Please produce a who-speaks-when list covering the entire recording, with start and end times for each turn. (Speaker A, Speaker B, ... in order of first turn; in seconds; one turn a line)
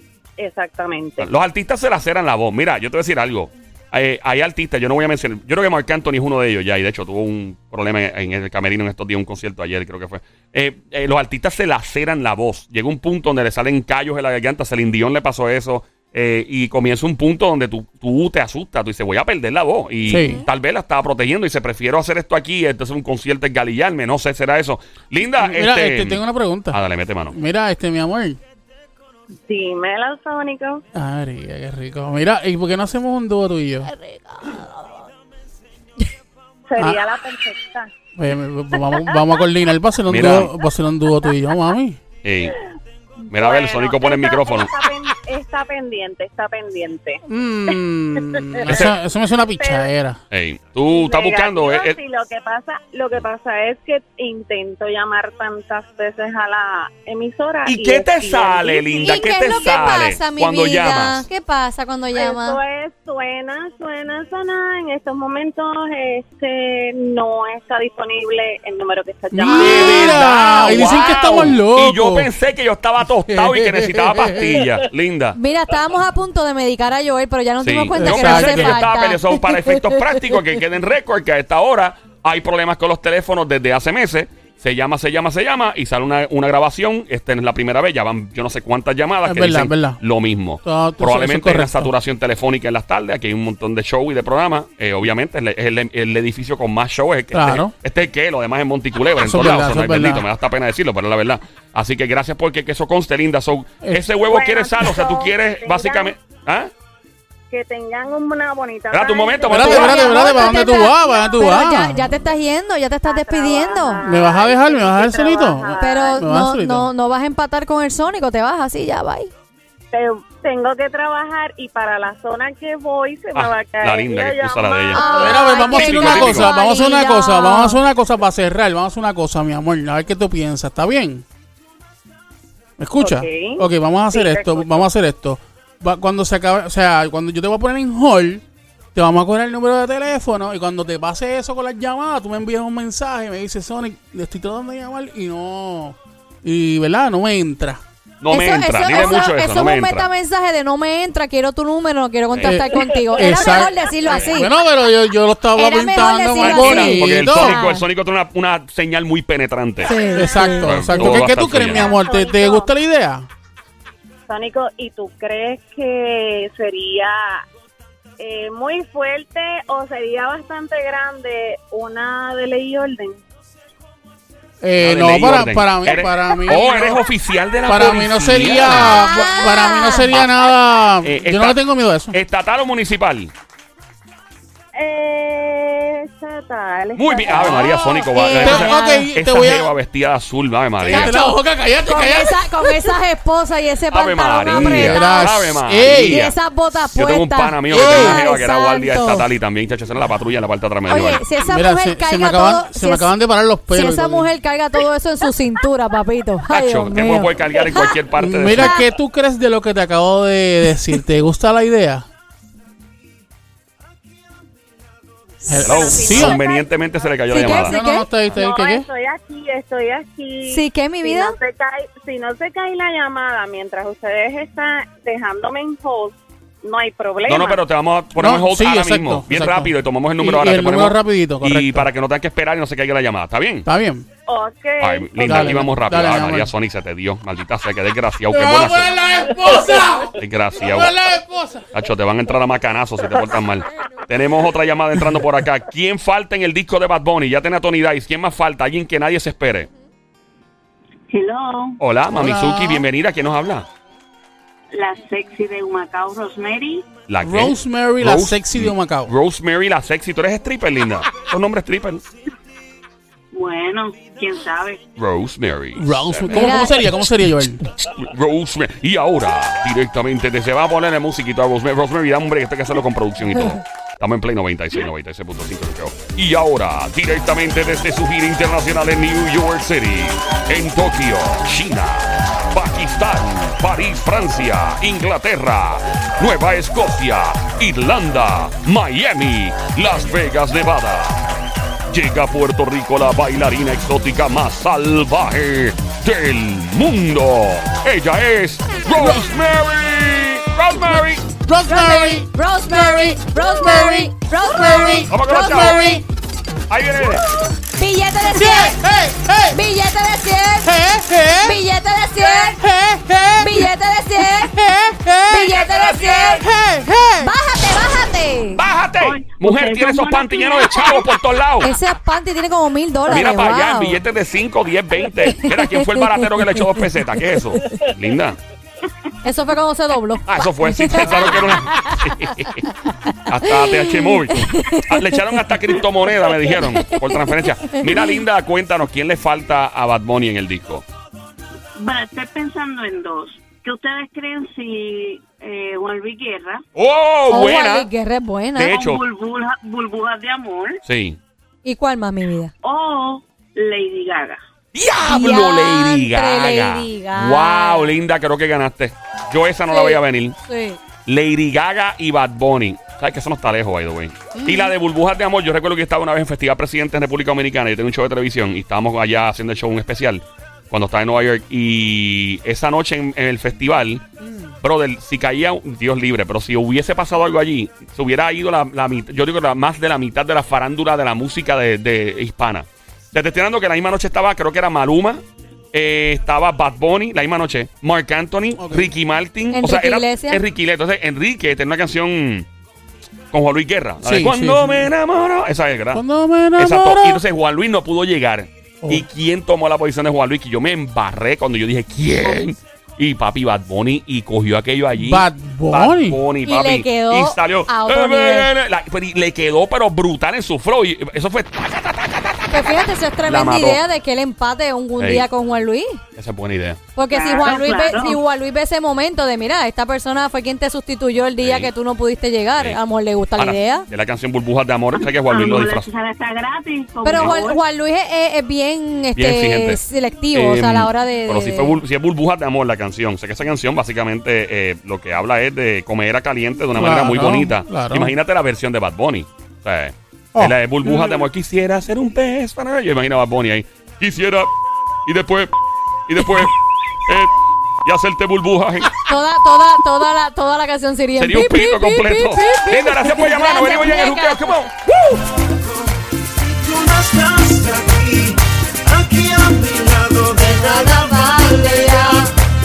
Speaker A: 0.4-1.3
Speaker B: 1.2-27.4
Speaker C: 20.1-20.5
Speaker D: 20.1-20.4
Speaker D: 25.4-26.8
Speaker D: 27.3-28.4
Speaker A: 29.5-30.8
Speaker D: 30.9-33.9
Speaker C: 33.9-34.9
Speaker A: 36.7-37.9
Speaker D: 38.2-42.0
Speaker B: 40.1-40.5
Speaker B: 42.2-42.6
Speaker B: 43.3-44.7
Speaker A: 43.3-47.2
Speaker D: 47.3-50.2
Speaker A: 48.2-48.9
Speaker B: 48.7-49.0
Speaker A: 49.6-49.9
Speaker B: 50.3-52.0
Speaker A: 50.9-60.0
Speaker B: 57.7-61.3
Speaker C: 59.0-62.6
Speaker A: 62.1-71.3
Speaker D: 69.3-72.3
Speaker B: 69.5-75.4
Speaker D: 73.3-74.7
Speaker C: 75.3-80.2
Speaker B: 77.6-106.7
Speaker D: 78.0-78.9
Speaker D: 89.2-90.0
Speaker D: 90.6-91.9
Speaker D: 97.3-97.7
Speaker D: 99.2-100.3
Speaker A: 104.3-106.1
Speaker A: 107.5-111.5
Speaker B: 108.9-110.6
Speaker D: 109.5-112.2
Speaker C: 109.6-114.1
Speaker A: 113.1-116.3
Speaker D: 114.0-116.9
Speaker C: 115.8-119.3
Speaker A: 119.9-126.0
Speaker B: 123.3-125.2
Speaker C: 124.9-127.8
Speaker D: 125.1-131.2
Speaker B: 125.7-126.5
Speaker D: 132.8-138.4
Speaker A: 133.0-134.8
Speaker D: 138.9-147.8
Speaker B: 148.2-150.1
Speaker C: 148.3-154.5
Speaker B: 152.3-152.6
Speaker D: 152.4-157.6
Speaker A: 153.3-153.6
Speaker B: 154.1-154.4
Speaker C: 155.6-157.8
Speaker B: 156.3-161.9
Speaker C: 159.8-160.8
Speaker A: 160.0-160.3
Speaker D: 160.1-163.3
Speaker A: 161.0-162.7
Speaker A: 164.3-167.4
Speaker A: 168.2-173.2
Speaker D: 174.6-177.0
Speaker B: 174.8-179.1
Speaker D: 177.7-182.2
Speaker C: 178.7-180.2
Speaker B: 181.0-181.6
Speaker B: 182.1-183.3
Speaker A: 184.8-187.6
Speaker B: 187.0-191.2
Speaker D: 187.3-189.7
Speaker C: 187.6-189.1
Speaker D: 190.8-192.9
Speaker C: 190.8-195.2
Speaker B: 193.9-196.3
Speaker D: 194.5-196.3
Speaker C: 195.8-199.3
Speaker B: 196.9-201.2
Speaker D: 197.7-198.2
Speaker C: 200.9-203.1
Speaker D: 201.4-204.3
Speaker C: 203.7-208.8
Speaker B: 206.5-208.8
Speaker D: 208.2-212.1
Speaker C: 215.4-216.2
Speaker D: 215.5-216.4
Speaker A: 215.5-216.8
Speaker B: 215.6-218.4
Speaker C: 217.3-218.1
Speaker D: 217.5-218.9
Speaker A: 218.3-227.6
Speaker C: 220.5-221.3
Speaker B: 227.3-233.7
Speaker D: 228.2-231.9
Speaker D: 233.7-234.1
Speaker A: 234.3-235.6
Speaker B: 234.8-238.9
Speaker D: 235.2-236.5
Speaker D: 238.3-241.7
Speaker B: 240.2-240.9
Speaker B: 241.7-249.7
Speaker E: 251.1-251.8
Speaker B: 251.8-253.7
Speaker D: 252.2-252.9
Speaker E: 254.7-256.9
Speaker B: 257.1-262.0
Speaker D: 257.2-259.1
Speaker E: 263.3-264.8
Speaker B: 265.0-266.7
Speaker D: 265.8-267.7
Speaker C: 266.3-266.9
Speaker B: 267.8-291.2
Speaker B: 291.9-301.2
Speaker D: 298.9-299.3
Speaker D: 301.4-306.0
Speaker C: 301.7-306.0
Speaker B: 305.1-305.8
Speaker B: 306.7-307.2
Speaker C: 307.7-308.8
Speaker D: 308.3-309.6
Speaker C: 309.5-310.8
Speaker D: 310.6-311.6
Speaker C: 311.4-312.6
Speaker D: 312.2-317.3
Speaker C: 313.4-314.5
Speaker C: 315.3-316.5
Speaker C: 317.2-318.6
Speaker B: 318.6-321.7
Speaker E: 319.0-321.0
Speaker C: 321.6-324.0
Speaker B: 323.1-328.4
Speaker C: 325.1-326.9
Speaker C: 329.2-332.6
Speaker B: 330.3-332.6
Speaker B: 333.3-340.9
Speaker C: 333.6-335.4
Speaker C: 336.5-338.2
Speaker E: 341.8-346.6
Speaker B: 346.8-347.9
Speaker C: 347.3-348.7
Speaker B: 348.6-349.0
Speaker E: 348.7-350.8
Speaker B: 350.8-351.2
Speaker C: 351.6-352.5
Speaker E: 352.6-354.4
Speaker B: 354.7-360.4
Speaker C: 355.0-358.0
Speaker C: 359.7-360.8
Speaker B: 361.1-374.1
Speaker D: 364.3-364.7
Speaker D: 374.2-374.6
Speaker B: 374.6-392.5
Speaker D: 388.6-388.9
Speaker C: 389.5-390.4
Speaker B: 393.3-396.0
Speaker D: 394.0-394.9
Speaker D: 395.9-397.2
Speaker B: 396.6-413.8
Speaker D: 404.9-406.2
Speaker C: 406.4-408.5
Speaker C: 412.5-416.0
Speaker B: 415.0-415.3
Speaker B: 416.2-416.8
Speaker C: 417.0-423.9
Speaker E: 417.1-418.2
Speaker B: 421.4-421.7
Speaker B: 423.4-425.9
Speaker E: 424.9-427.6
Speaker C: 427.0-431.8
Speaker B: 427.1-427.4
Speaker B: 429.2-429.8
Speaker B: 430.3-444.5
Speaker D: 436.7-438.2
Speaker B: 445.1-445.5
Speaker B: 446.1-446.5
Speaker B: 447.1-449.0
Speaker C: 449.1-454.6
Speaker B: 451.2-455.3
Speaker E: 456.9-457.2
Speaker F: 457.0-458.1
Speaker E: 457.9-458.2
Speaker F: 459.1-460.0
Speaker E: 459.1-460.0
Speaker C: 460.1-462.3